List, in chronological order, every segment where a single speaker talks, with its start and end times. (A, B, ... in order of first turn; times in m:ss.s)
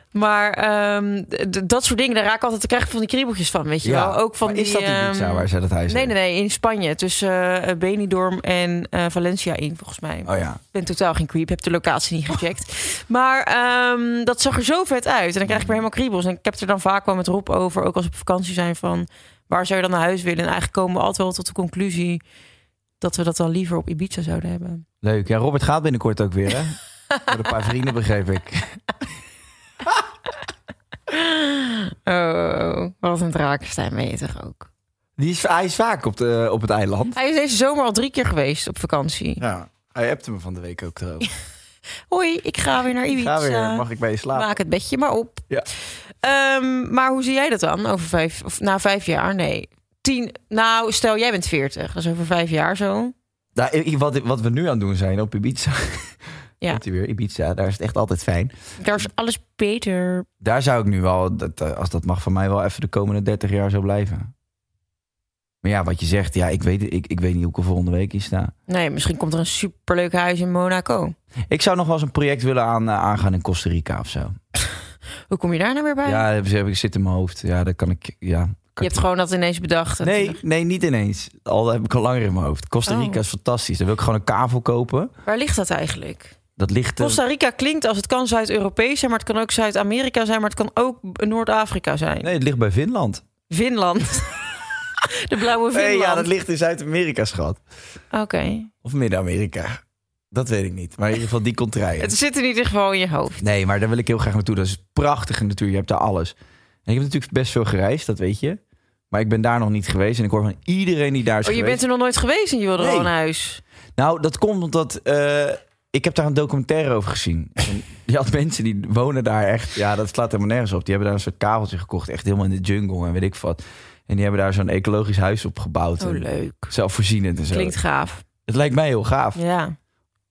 0:00.1-0:22.2 A
0:03.8-0:06.1 B
0:10.2-0:10.6 B
0:15.5-0:15.8 B
0:23.0-0:24.8 A
0:25.0-0:28.8 B
0:31.1-0:34.7 A
0:35.2-0:37.2 B
0:37.1-0:39.4 A
0:39.4-0:41.3 B
0:42.1-0:45.5 A
0:43.1-0:44.5 B
0:46.2-0:53.1 A
0:53.6-0:58.6 B
0:58.8-1:00.3 A
1:00.4-1:04.3 B
1:05.6-1:08.5 B
1:08.7-1:11.2 A
1:11.5-1:14.4 B
1:15.3-1:16.2 A
1:16.0-1:19.0 B
1:18.8-1:20.4 A
1:20.0-1:25.1 B
1:22.9-1:23.2 A
1:25.3-1:26.4 A
1:26.6-1:27.2 B
1:27.0-1:32.3 A
1:32.2-1:33.2 B
1:33.5-1:34.4 A
1:35.1-1:36.3 A
1:35.7-1:37.6 B
1:38.1-1:38.7 A
1:38.8-1:39.8 B
1:40.3-1:42.1 B
1:42.0-1:43.4 A
1:43.4-1:48.6 B
1:49.1-1:51.8 B
1:51.4-1:53.6 A
1:52.8-1:53.1 B
1:54.0-2:07.8 B
2:06.0-2:06.7 A
2:07.5-2:08.2 A
2:08.5-2:09.4 B
2:09.4-2:09.8 A